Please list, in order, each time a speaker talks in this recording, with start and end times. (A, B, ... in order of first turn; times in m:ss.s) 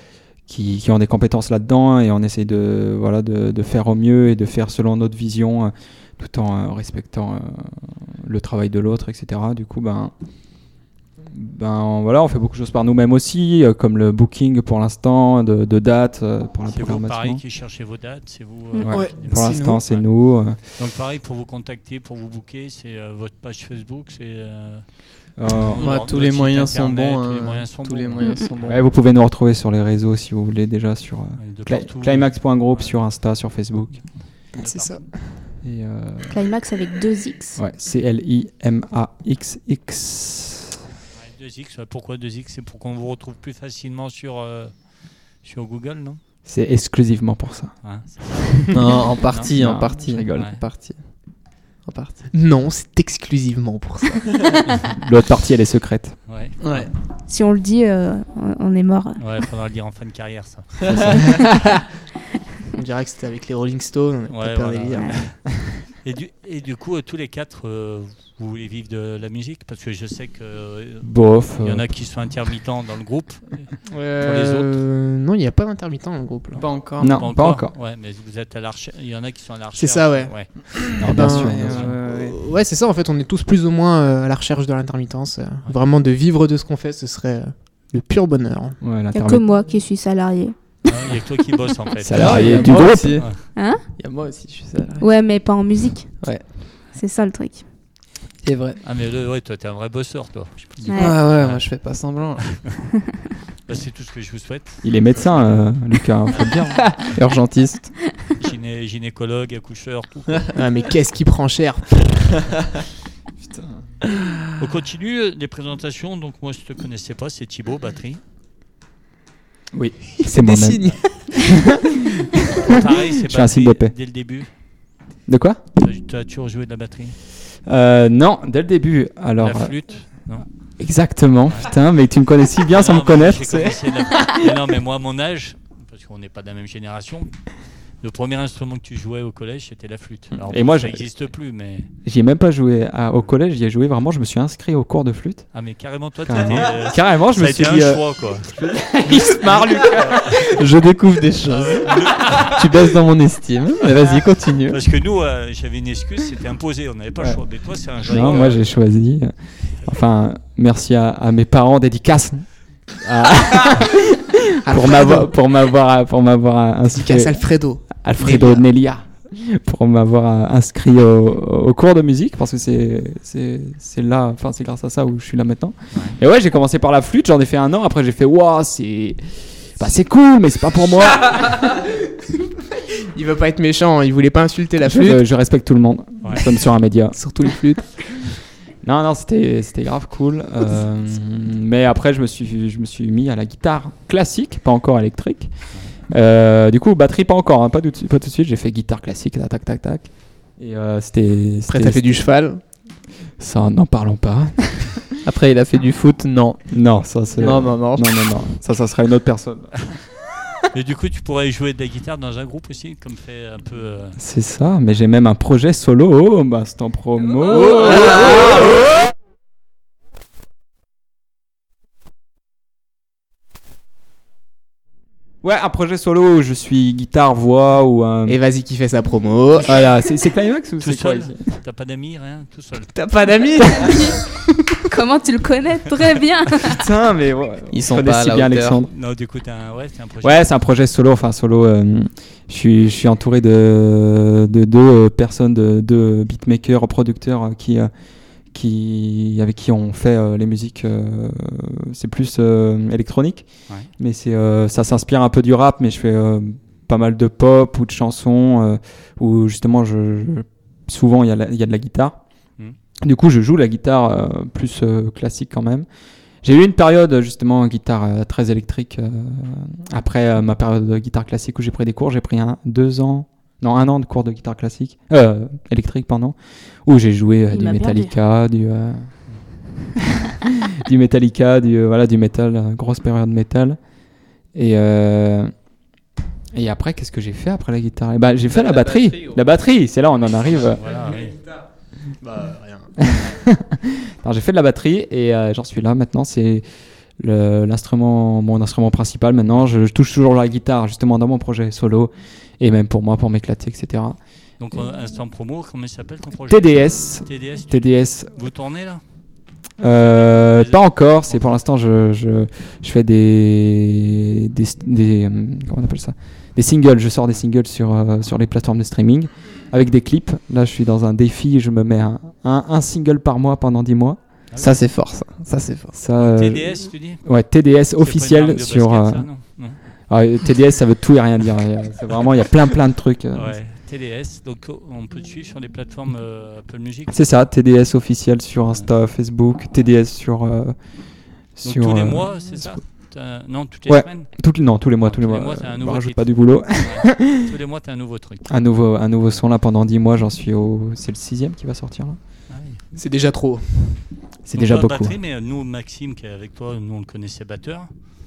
0:00.5-0:10.1 A
0:11.3-0:17.4 A
0:16.7-0:20.1 B
0:18.8-0:20.6 A
0:18.9-0:19.8 C
0:20.8-0:28.8 B
0:25.4-0:26.0 A
0:25.8-0:28.8 D
0:28.2-0:28.5 E
0:28.7-0:34.0 A
0:31.4-0:33.0 B
0:34.5-0:35.1 B
0:34.6-0:35.1 C
0:35.6-0:36.4 A
0:36.3-0:37.6 E
0:37.6-0:40.8 A
0:41.2-0:44.9 B
0:45.4-0:46.2 B
0:46.5-0:47.7 A
0:47.8-0:49.5 B
0:48.7-0:51.2 D
0:49.5-0:50.5 A
0:50.3-0:50.6 B
0:51.8-0:52.2 D
0:52.3-0:54.6 C
0:55.0-0:56.2 A
0:56.3-0:56.9 B
0:56.6-0:56.9 D
0:57.3-0:59.2 E
0:59.2-1:01.2 B
1:00.9-1:01.2 A
1:02.8-1:05.2 C
1:04.3-1:05.5 B
1:06.0-1:14.8 B
1:11.0-1:11.9 A
1:13.9-1:16.6 C
1:16.6-1:17.2 D
1:17.0-1:17.7 A
1:17.0-1:20.6 B
1:19.8-1:28.8 C
1:21.0-1:22.0 A
1:21.2-1:22.4 D
1:21.5-1:21.9 B
1:28.8-1:29.4 A
1:29.1-1:30.6 E
1:30.9-1:33.4 B
1:32.0-1:33.2 A
1:32.1-1:35.0 D
1:33.6-1:33.8 E
1:35.0-1:37.6 E
1:36.2-1:36.5 D
1:38.4-1:38.8 D
1:38.8-1:41.7 B
1:40.9-1:41.2 E
1:40.9-1:42.6 D
1:42.4-1:42.7 B
1:43.7-1:45.6 B
1:44.8-1:47.0 A
1:47.1-1:48.0 D
1:48.4-1:50.5 B
1:50.6-1:52.3 C
1:53.4-1:53.9 A
1:54.6-1:58.2 B
1:59.7-2:03.9 A
2:00.2-2:01.6 C
2:02.6-2:04.5 B
2:05.3-2:05.6 A
2:05.8-2:07.2 B
2:07.7-2:09.7 A
2:09.4-2:10.5 B
2:10.8-2:14.2 A
2:12.7-2:17.3 B
2:18.0-2:21.9 B
2:20.5-2:21.0 A
2:22.0-2:25.5 A
2:25.5-2:30.5 B
2:26.2-2:30.6 A
2:30.4-2:34.8 D
2:31.5-2:32.6 B
2:34.7-2:38.6 B
2:38.0-2:59.2 A
2:38.2-2:38.4 D
2:44.7-2:45.3 C
2:47.0-2:48.6 C
2:59.8-3:01.7 A
3:03.1-3:05.2 C
3:04.8-3:07.3 A
3:07.2-3:08.2 C
3:08.8-3:15.5 A
3:16.1-3:22.3 A
3:21.7-3:22.6 C
3:23.4-3:25.2 A
3:25.2-3:26.6 D
3:26.7-3:29.9 A
3:27.4-3:28.1 D
3:30.7-3:34.2 B
3:34.2-3:38.9 A
3:37.8-3:38.2 D
3:45.4-3:48.4 A
3:48.3-3:49.8 C
3:49.6-3:51.5 A
3:50.8-3:52.9 B
3:52.9-3:54.1 C
3:53.8-3:54.2 E
3:54.9-3:56.8 E
3:56.6-3:58.9 A
3:57.7-3:58.8 D
3:58.9-4:00.5 B
4:00.2-4:07.9 A
4:08.5-4:13.5 A
4:14.0-4:22.2 A
4:23.0-4:25.9 A
4:26.4-4:39.1 A
4:37.5-4:38.1 E
4:40.7-4:43.8 A
4:44.5-4:45.5 A
4:46.5-4:50.8 A
4:48.5-4:49.4 D
4:50.6-4:51.4 B
4:52.2-4:52.9 C
4:53.0-4:56.7 A
4:57.2-5:04.2 A
5:04.6-5:09.0 B
5:06.5-5:08.3 A
5:09.8-5:24.2 A
5:10.0-5:11.5 B
5:24.5-5:24.8 B
5:24.6-5:25.9 D
5:25.9-5:29.3 A
5:26.2-5:27.2 B
5:28.0-5:29.8 B
5:30.1-5:33.6 A
5:33.3-5:37.2 B
5:37.1-5:40.8 A
5:41.6-5:42.8 A
5:41.6-5:44.3 B
5:43.9-5:47.4 A
5:45.0-5:48.5 B
5:48.5-5:52.2 A
5:52.5-5:52.8 B
5:53.0-5:54.0 C
5:54.4-5:55.2 A
5:54.5-5:57.9 B